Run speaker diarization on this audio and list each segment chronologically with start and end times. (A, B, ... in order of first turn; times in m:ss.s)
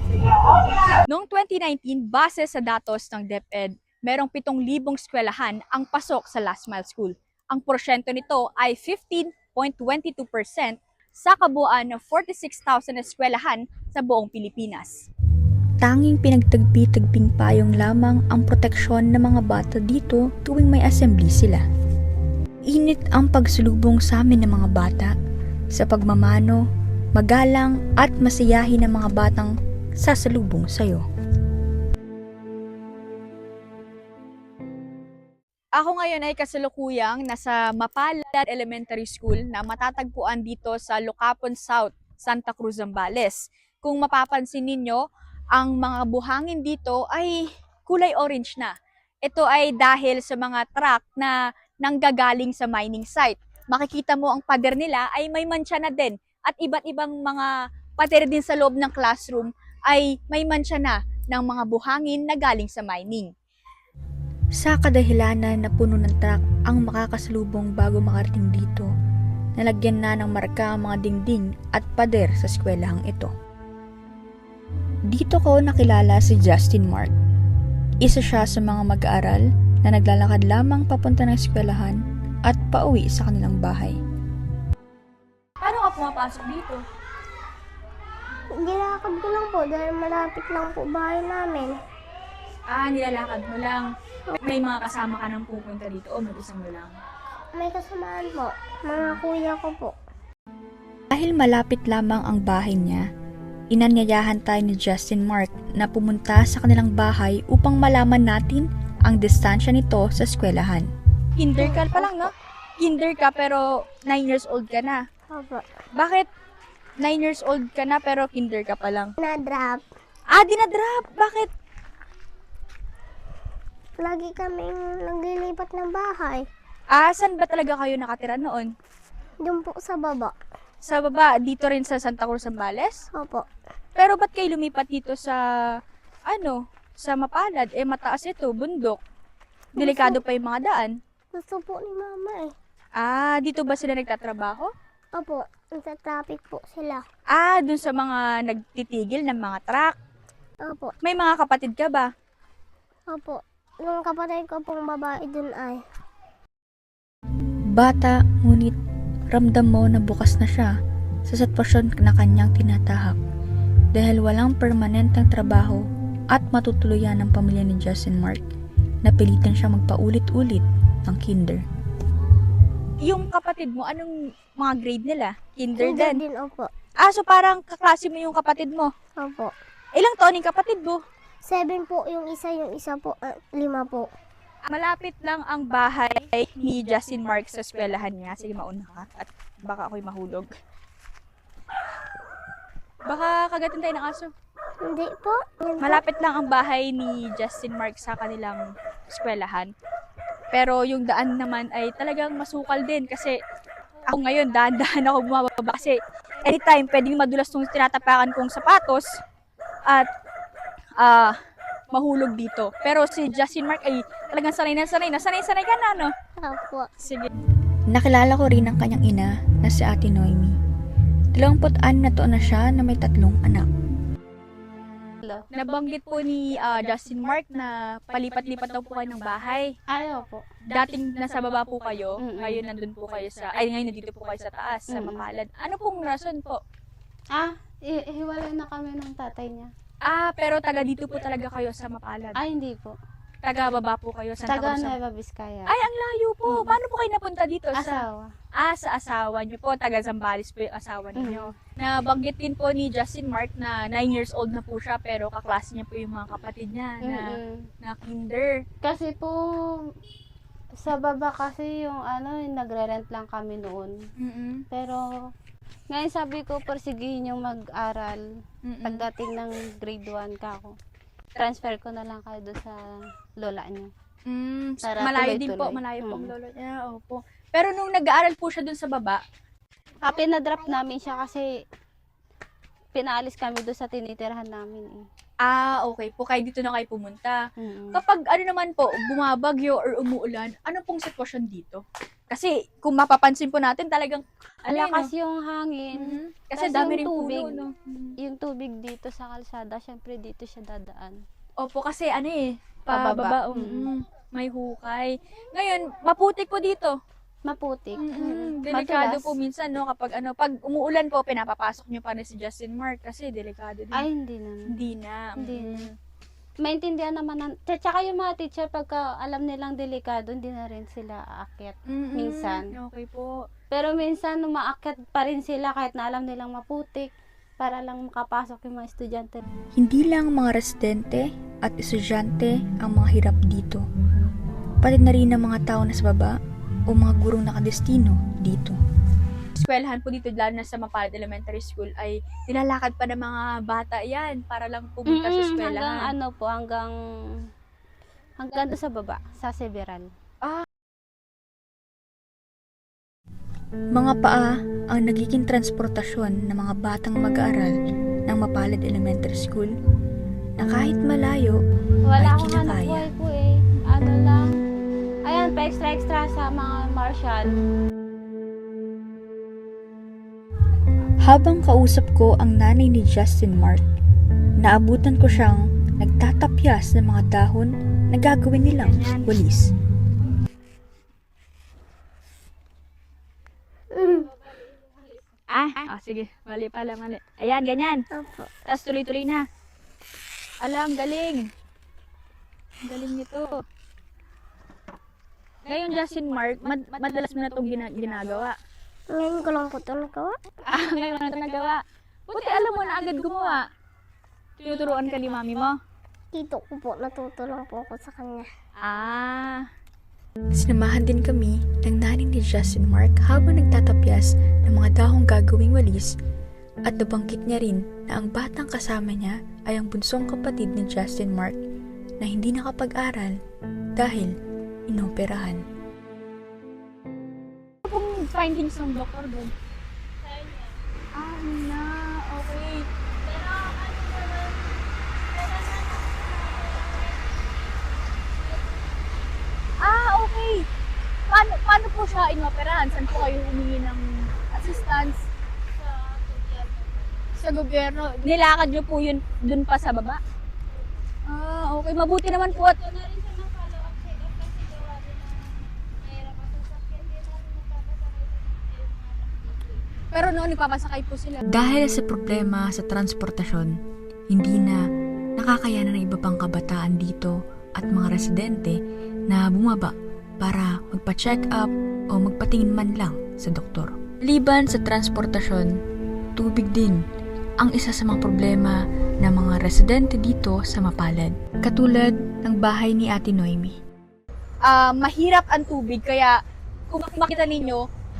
0:01.1-0:15.0 A
0:15.8-0:21.6 B
0:22.7-0:25.1 B
0:25.8-0:26.6 B
0:27.2-0:31.0 B
0:35.8-0:45.0 A
0:45.6-0:48.7 A
0:49.2-1:03.3 A
1:04.6-1:08.9 B
1:09.6-1:13.3 B
1:15.1-1:17.1 B
1:18.0-1:24.0 B
1:25.6-1:26.8 A
1:28.6-1:31.8 C
1:32.7-1:33.9 A
1:34.4-1:36.9 A
1:37.6-1:39.9 C
1:41.1-1:43.0 B
1:43.7-1:50.9 B
1:51.4-1:55.0 A
1:51.6-1:52.3 C
1:55.3-1:55.7 C
1:56.0-1:56.3 A
1:57.0-1:59.1 A
1:59.2-1:59.8 C
2:00.3-2:01.5 A
2:04.0-2:06.4 C
2:06.9-2:08.7 A
2:09.4-2:10.3 C
2:10.8-2:13.0 A
2:13.1-2:13.4 C
2:14.0-2:15.4 A
2:16.3-2:19.0 A
2:19.8-2:20.2 C
2:19.8-2:20.9 A
2:21.3-2:22.6 C
2:23.0-2:24.7 A
2:25.1-2:27.0 C
2:27.4-2:29.9 A
2:30.6-2:30.9 C
2:31.0-2:32.1 A
2:33.1-2:35.8 C
2:37.8-2:38.8 B
2:39.3-2:40.7 B
2:41.3-2:43.2 B
2:43.9-2:45.8 B
2:46.3-2:48.4 B
2:49.0-2:51.6 B
2:53.0-2:56.2 A
2:55.8-2:56.7 C
2:57.0-2:58.9 A
2:59.2-2:59.5 C
3:00.0-3:01.0 A
3:01.4-3:04.1 C
3:04.7-3:10.5 A
3:13.1-3:14.3 A
3:14.8-3:16.0 C
3:15.8-3:19.7 A
3:20.5-3:23.4 A
3:24.1-3:29.1 A
3:31.0-3:31.3 A
3:31.9-3:36.1 A
3:36.4-3:36.9 C
3:37.0-3:37.3 A
3:37.9-3:40.6 B
3:41.4-3:43.7 B
3:45.5-3:49.7 A
3:49.9-3:50.4 D
3:50.7-3:56.6 A
3:52.2-3:52.6 D
3:54.9-3:55.3 D
3:57.3-3:59.7 D
4:00.0-4:02.4 A
4:02.4-4:03.0 D
4:03.4-4:04.9 A
4:04.5-4:05.7 D
4:05.7-4:08.0 A
4:06.5-4:06.8 D
4:07.8-4:08.3 D
4:08.6-4:18.6 A
4:11.2-4:11.5 D
4:17.0-4:17.6 D
4:18.8-4:19.4 D
4:20.8-4:23.9 D
4:24.2-4:24.6 A
4:24.7-4:25.0 D
4:25.9-4:28.2 D
4:28.6-4:29.1 A
4:28.8-4:30.7 D
4:31.4-4:33.9 D
4:34.3-4:39.2 A
4:34.8-4:36.3 D
4:40.0-4:41.5 D
4:42.9-4:45.0 D
4:45.4-4:47.4 A
4:47.6-4:48.0 D
4:48.0-4:55.1 A
4:54.7-4:57.6 D
4:56.0-4:58.1 A
4:58.2-5:01.2 D
5:01.6-5:07.0 A
5:02.9-5:03.9 D
5:07.4-5:09.3 D
5:08.0-5:14.0 A
5:13.9-5:14.6 D
5:14.7-5:15.9 A
5:15.4-5:15.8 D
5:16.6-5:22.7 D
5:21.9-5:23.3 A
5:23.7-5:29.4 D
5:29.8-5:33.8 B
5:34.8-5:36.4 B
5:36.9-5:38.8 B
5:39.6-5:46.1 A
5:45.1-5:46.9 D
5:48.4-5:50.1 D
5:54.0-5:57.7 B
5:58.3-5:59.7 B
6:00.6-6:01.6 B
6:02.1-6:04.6 D
6:02.2-6:03.1 B
6:05.2-6:07.5 D
6:11.2-6:13.8 B
6:14.6-6:19.7 B
6:18.8-6:19.3 A
6:23.9-6:24.3 C
6:25.5-6:28.0 A
6:28.1-6:28.6 C
6:28.7-6:29.4 A
6:30.6-6:31.5 A
6:32.8-6:33.6 A
6:35.7-6:38.5 A
6:39.1-6:40.4 C
6:40.7-6:43.6 A
6:44.6-6:45.7 A
6:46.3-6:48.5 C
6:48.8-6:49.6 A
6:50.6-6:56.1 B
6:56.9-7:01.6 B
7:02.2-7:03.4 B
7:04.0-7:04.3 B
7:04.9-7:05.6 B
7:07.8-7:09.5 A
7:10.2-7:10.7 D
7:11.2-7:12.8 A
7:13.2-7:14.6 D
7:15.2-7:17.2 D
7:18.2-7:18.8 D
7:19.8-7:20.7 A
7:21.3-7:25.2 A
7:25.8-7:27.1 D
7:27.4-7:30.2 A
7:31.3-7:32.8 A
7:32.5-7:39.7 D
7:40.1-7:41.4 A
7:41.5-7:43.8 B
7:44.3-7:44.8 B
7:45.4-7:55.7 B
7:56.4-7:57.0 B
7:57.6-8:03.8 B
8:04.6-8:06.4 A
8:06.9-8:07.8 A